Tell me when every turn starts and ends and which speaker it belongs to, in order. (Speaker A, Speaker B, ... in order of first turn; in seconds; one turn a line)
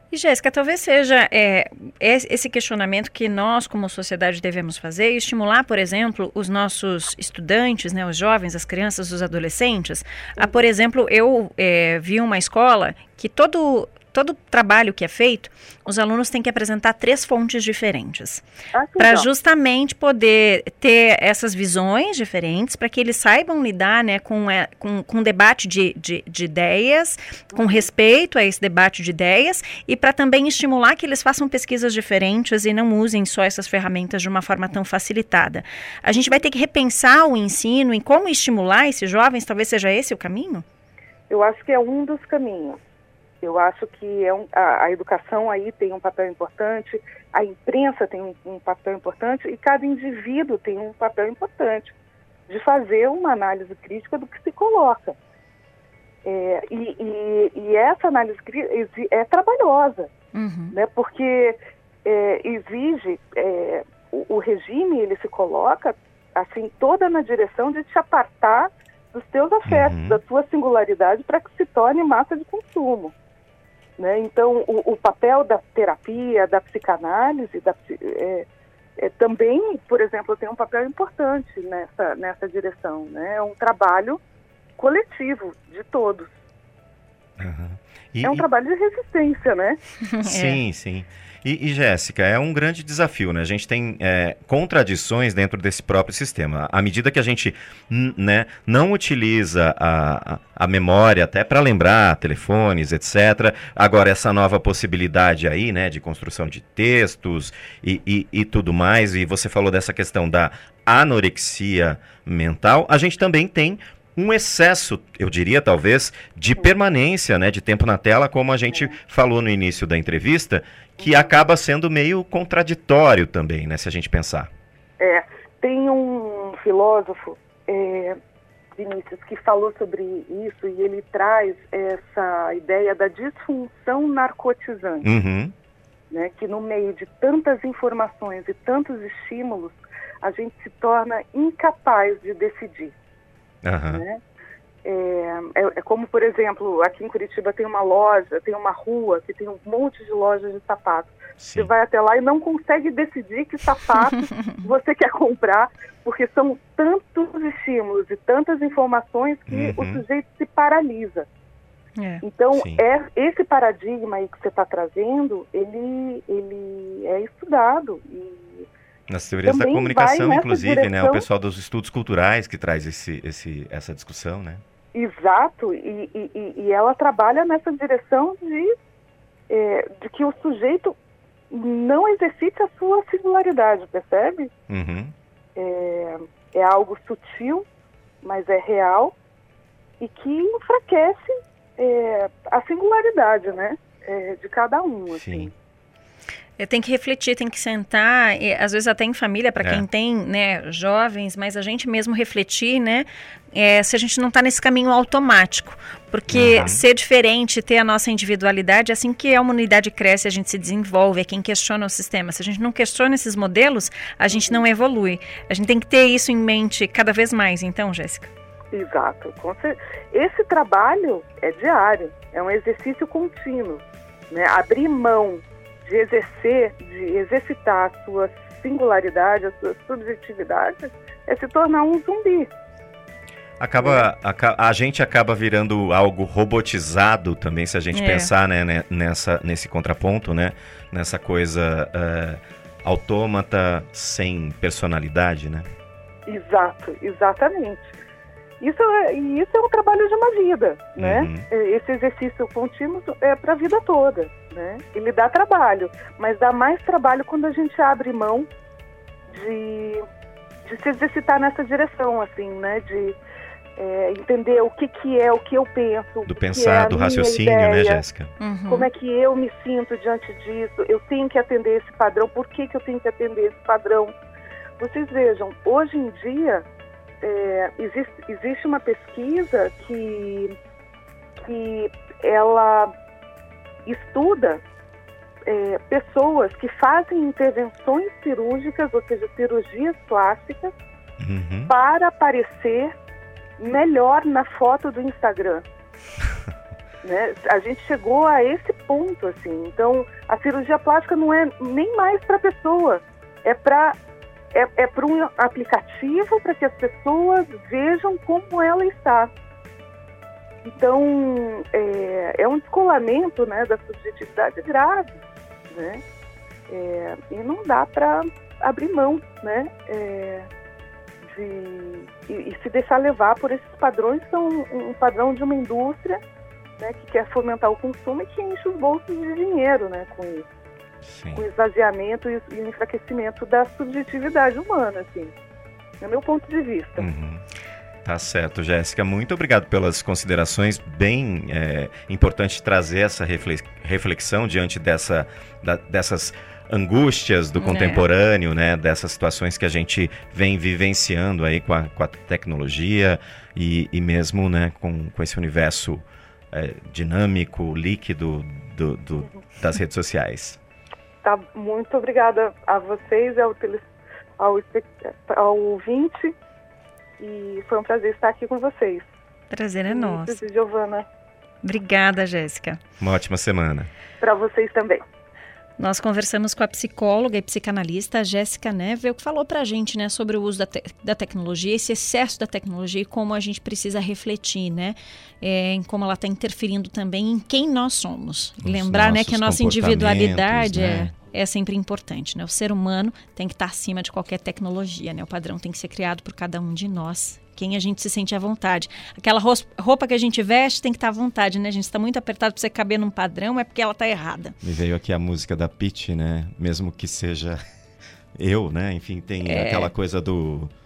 Speaker A: 0.1-18.4
Speaker B: 10.4-10.7
Speaker B: 18.7-19.3
Speaker A: 19.0-40.6
Speaker B: 27.5-27.9
Speaker B: 36.1-36.4
Speaker B: 41.3-42.8
Speaker B: 43.4-51.9
Speaker B: 52.5-55.2
Speaker B: 56.2-60.1
Speaker A: 60.3-60.7
Speaker B: 60.7-73.1
Speaker C: 69.7-70.2
Speaker B: 74.0-78.5
Speaker B: 79.0-84.2
Speaker B: 84.8-86.3
Speaker C: 87.4-88.5
Speaker B: 88.2-89.8
Speaker A: 90.1-90.6
Speaker C: 90.2-124.5
Speaker B: 121.0-121.3
Speaker B: 125.0-128.2
Speaker B: 128.8-135.1
Speaker C: 135.0-135.5
Speaker B: 136.1-142.9
Speaker C: 143.6-144.0
Speaker B: 143.9-144.2
Speaker B: 144.8-161.3
Speaker C: 151.4-151.7
Speaker C: 159.5-160.0
Speaker A: 162.0-162.2
Speaker B: 162.2-168.7
Speaker C: 162.5-162.8
Speaker C: 169.1-174.6
Speaker B: 169.4-171.2
Speaker B: 174.9-178.7
Speaker B: 179.5-181.0
Speaker B: 181.5-184.5
Speaker C: 184.7-185.1
Speaker B: 185.6-187.7
Speaker B: 188.2-189.1
Speaker B: 190.0-195.5
Speaker C: 195.1-195.5
Speaker A: 196.6-218.3
Speaker C: 199.6-199.9
Speaker C: 206.3-206.8
Speaker B: 214.3-214.6
Speaker B: 218.7-232.5
Speaker C: 233.6-245.7
Speaker B: 233.8-234.1
Speaker A: 237.9-238.3
Speaker B: 246.3-247.9
Speaker B: 248.6-258.5
Speaker C: 251.0-251.5
Speaker B: 259.3-260.0
Speaker B: 260.6-263.2
Speaker B: 263.8-268.0
Speaker C: 266.3-268.3
Speaker A: 268.4-268.9
Speaker B: 268.7-274.1
Speaker B: 274.8-276.6
Speaker B: 277.2-280.5
Speaker B: 281.4-282.9
Speaker B: 283.9-284.6
Speaker B: 285.5-290.7
Speaker C: 291.2-291.7
Speaker B: 291.7-292.9
Speaker B: 293.6-295.6
Speaker B: 297.0-304.0
Speaker B: 304.5-309.3
Speaker B: 310.6-316.0
Speaker B: 316.7-320.5
Speaker B: 321.2-326.2
Speaker B: 326.8-330.5
Speaker C: 331.0-331.4
Speaker B: 331.4-335.3
Speaker B: 336.0-337.1
Speaker C: 337.0-337.4
Speaker C: 338.1-360.6
Speaker A: 347.6-348.0
Speaker B: 361.2-363.8
Speaker B: 364.4-366.3
Speaker B: 367.2-369.1
Speaker A: 369.5-370.4
Speaker B: 369.9-371.1
Speaker A: 371.6-372.8
Speaker C: 373.0-373.9
Speaker B: 374.2-375.0
Speaker A: 375.8-404.6
Speaker C: 388.6-391.1
Speaker C: 404.6-407.6
Speaker C: 408.4-410.7
Speaker A: 409.4-409.9